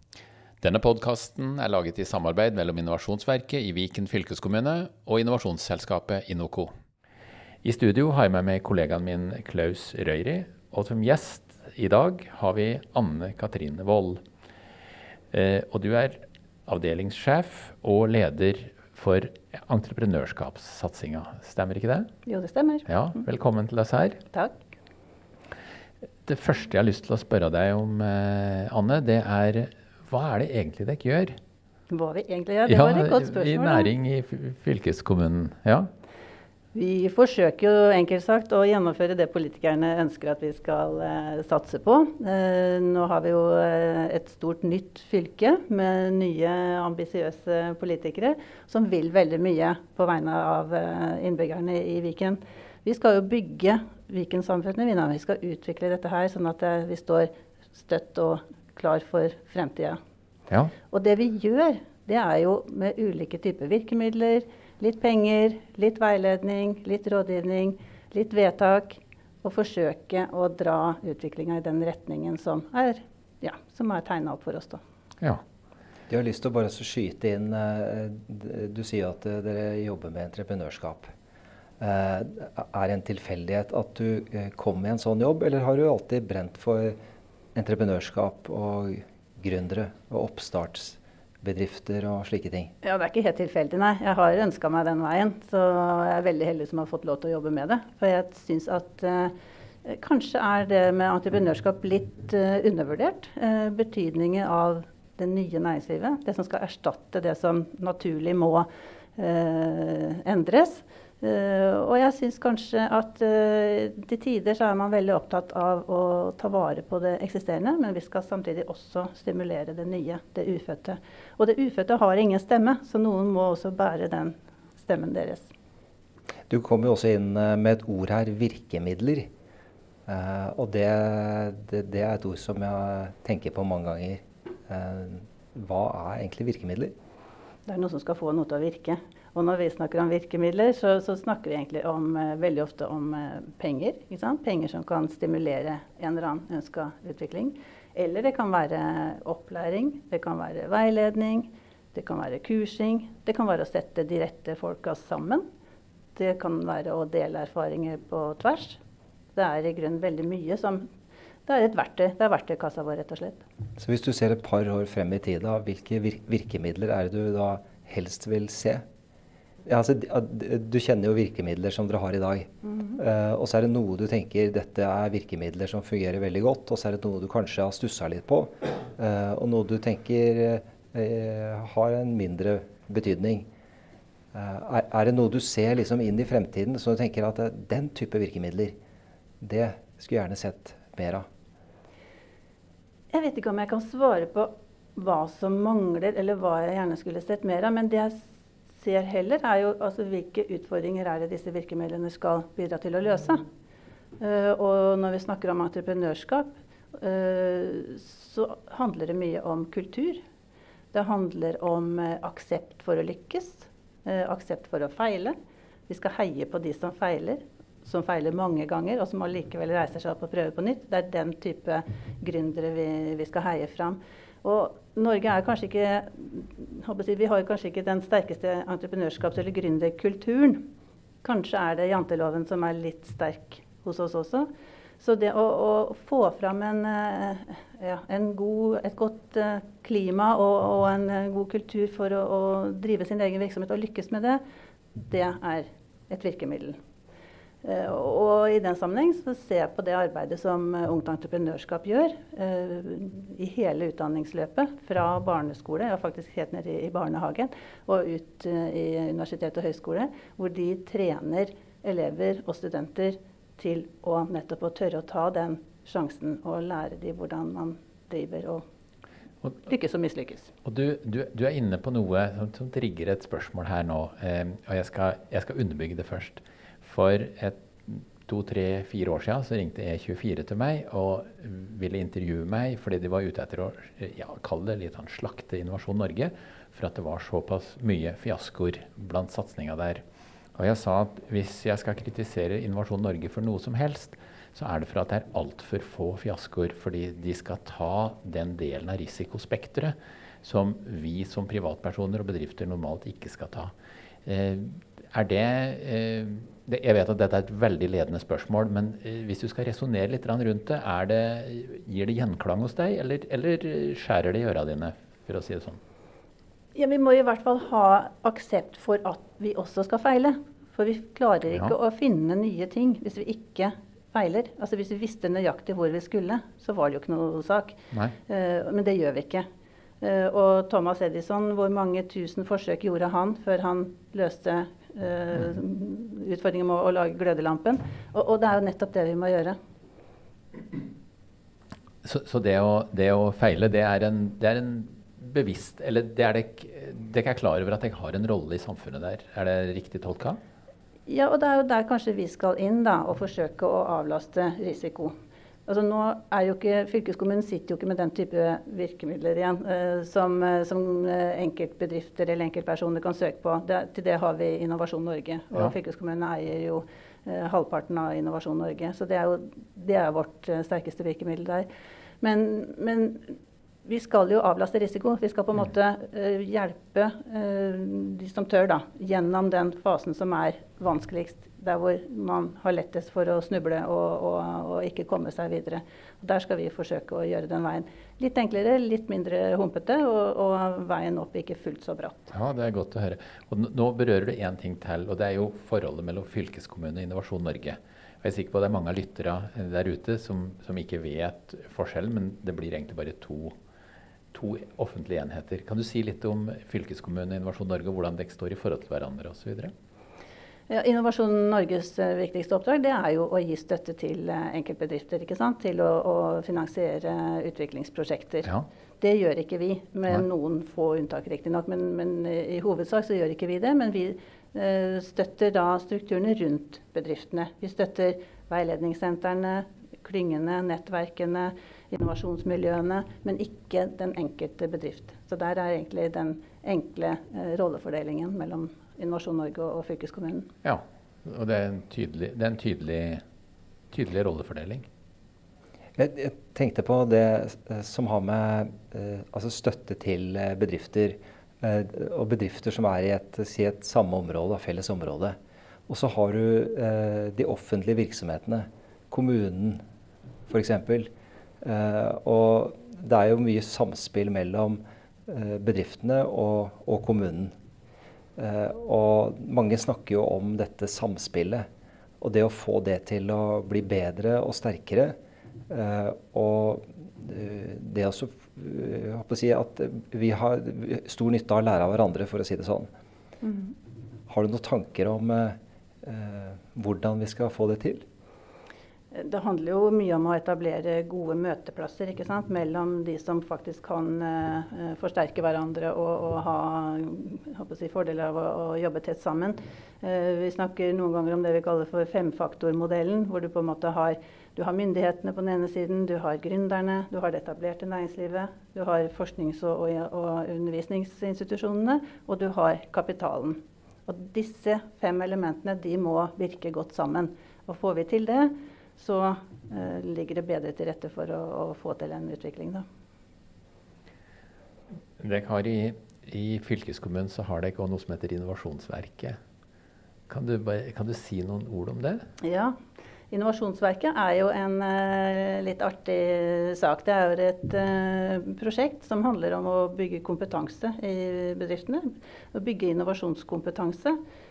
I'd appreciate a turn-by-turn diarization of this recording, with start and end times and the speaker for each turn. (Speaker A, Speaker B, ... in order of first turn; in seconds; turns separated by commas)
Speaker A: 0.6-6.7, Speaker A: 7.6-14.2, Speaker A: 15.3-22.1, Speaker B: 22.3-22.9, Speaker A: 22.9-24.2, Speaker B: 24.3-24.6, Speaker A: 26.3-31.4, Speaker B: 31.9-33.9, Speaker A: 32.7-35.9, Speaker B: 36.7-60.0, Speaker A: 60.5-60.7, Speaker B: 60.9-74.8, Speaker C: 76.1-81.1, Speaker C: 81.8-87.0, Speaker C: 87.5-92.7, Speaker B: 92.8-99.3, Speaker B: 99.8-125.5, Speaker C: 126.5-129.3, Speaker C: 130.1-136.9, Speaker B: 137.7-155.4, Speaker B: 156.2-158.8, Speaker B: 159.3-160.8, Speaker B: 161.5-163.4, Speaker C: 163.8-168.8, Speaker C: 169.7-183.5, Speaker C: 184.3-188.7, Speaker C: 189.4-191.3, Speaker B: 193.1-203.4, Speaker B: 204.2-210.2, Speaker B: 210.9-215.3, Speaker B: 215.9-230.6, Speaker B: 231.2-234.5, Speaker B: 235.0-244.4, Speaker B: 244.9-246.8, Speaker B: 247.6-268.6, Speaker B: 269.6-270.5, Speaker A: 270.6-290.0, Speaker A: 290.6-303.7, Speaker A: 304.2-315.8, Speaker B: 316.8-329.4, Speaker B: 330.0-339.6, Speaker A: 342.0-350.4, Speaker B: 351.1-355.1, Speaker B: 355.7-371.7, Speaker B: 372.2-392.3, Speaker A: 392.3-403.5, Speaker A: 404.3-409.7, Speaker B: 410.7-418.5, Speaker B: 419.0-440.5, Speaker A: 440.6-443.2, Speaker A: 443.9-444.9, Speaker C: 446.0-455.4, Speaker C: 455.9-459.8, Speaker C: 460.5-461.1, Speaker C: 461.6-467.5, Speaker C: 468.4-471.7, Speaker C: 472.2-475.1, Speaker C: 475.7-482.9, Speaker B: 483.4-483.8, Speaker C: 484.3-488.0, Speaker B: 489.1-522.9, Speaker A: 525.2-529.4, Speaker A: 530.3-532.2, Speaker B: 532.4-532.8, Speaker B: 533.3-544.2